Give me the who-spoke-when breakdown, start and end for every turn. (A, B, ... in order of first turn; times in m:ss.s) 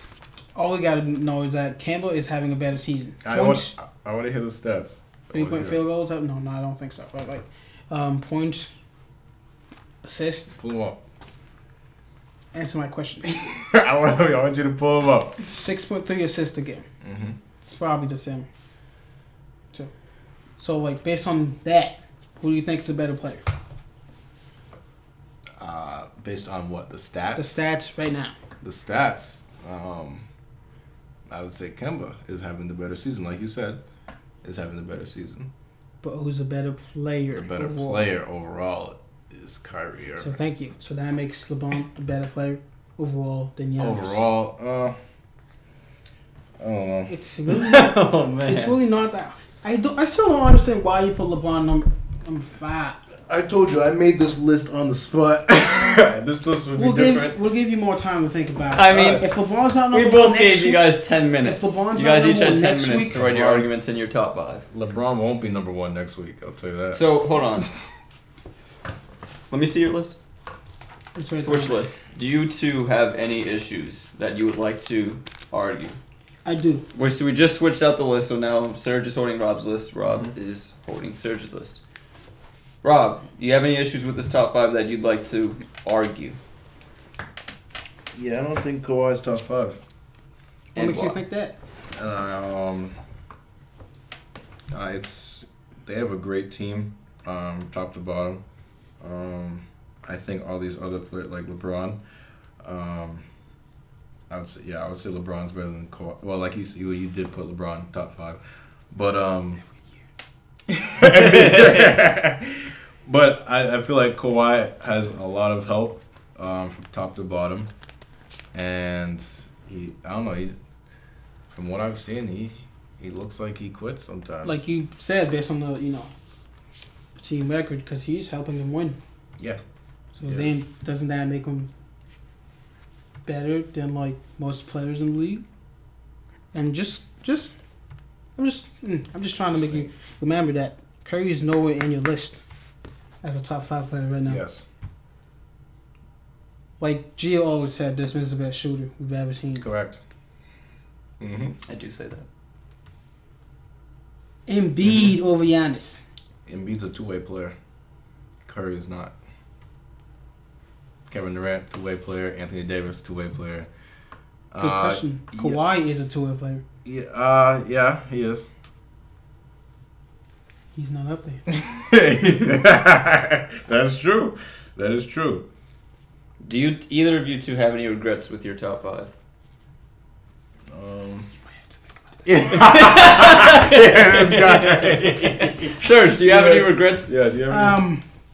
0:00.5-0:03.7 A
0:03.2-0:05.8 B
0:05.3-0:08.7 A
0:10.0-0:10.5 A
0:10.6-0:11.0 B
0:12.5-0:13.5 A
0:13.5-0:15.4 B
0:15.5-0:16.8 A
0:17.0-0:17.4 B
0:17.6-0:18.5 A
0:20.6-0:23.4 A
0:25.6-0:27.6 B
0:27.3-0:28.3 A
0:28.6-0:30.2 B
0:31.3-0:33.8 B
0:34.4-0:35.5 B
0:36.0-0:38.1 A
0:37.3-0:40.3 B
0:40.2-0:44.2 A
0:43.8-0:44.9 B
0:46.6-0:47.1 B
0:47.1-0:53.0 A
0:47.5-0:48.8 C
0:53.3-0:57.4 B
0:56.8-1:00.8 A
0:58.7-0:59.2 C
0:59.9-1:04.6 C
1:01.4-1:03.2 A
1:03.1-1:03.7 B
1:04.7-1:07.0 B
1:06.9-1:07.7 C
1:09.5-1:10.2 C
1:11.1-1:11.8 A
1:11.4-1:16.0 C
1:16.4-1:16.8 A
1:16.9-1:21.8 C
1:22.8-1:26.4 C
1:28.1-1:29.8 B
1:30.7-1:31.2 C
1:30.7-1:31.6 A
1:31.9-1:33.0 B
1:34.7-1:38.4 B
1:39.0-1:42.0 B
1:42.6-1:43.2 B
1:44.3-1:48.4 B
1:48.9-1:49.6 B
1:50.7-1:57.7 B
1:58.5-2:00.6 B
2:01.5-2:04.6 B
2:04.4-2:06.1 A
2:07.2-2:09.0 A
2:10.2-2:11.7 A
2:10.2-2:10.6 B
2:13.2-2:15.4 A
2:16.5-2:17.5 A
2:18.4-2:22.4 A
2:19.5-2:19.9 B
2:23.2-2:24.4 A
2:24.2-2:24.6 B
2:26.8-2:29.6 A
2:29.6-2:30.0 B
2:31.2-2:31.6 B
2:31.7-2:32.2 C
2:34.5-2:36.0 A
2:36.5-2:37.5 B
2:38.4-2:39.1 B
2:41.1-2:43.7 B
2:44.5-2:45.6 B
2:44.6-2:46.6 A
2:46.8-2:48.4 B
2:50.7-2:51.4 A
2:51.5-2:55.4 B
2:56.4-2:59.1 C
3:00.7-3:01.3 B
3:02.2-3:02.6 A
3:02.2-3:07.8 B
3:02.5-3:07.1 C
3:07.5-3:08.0 A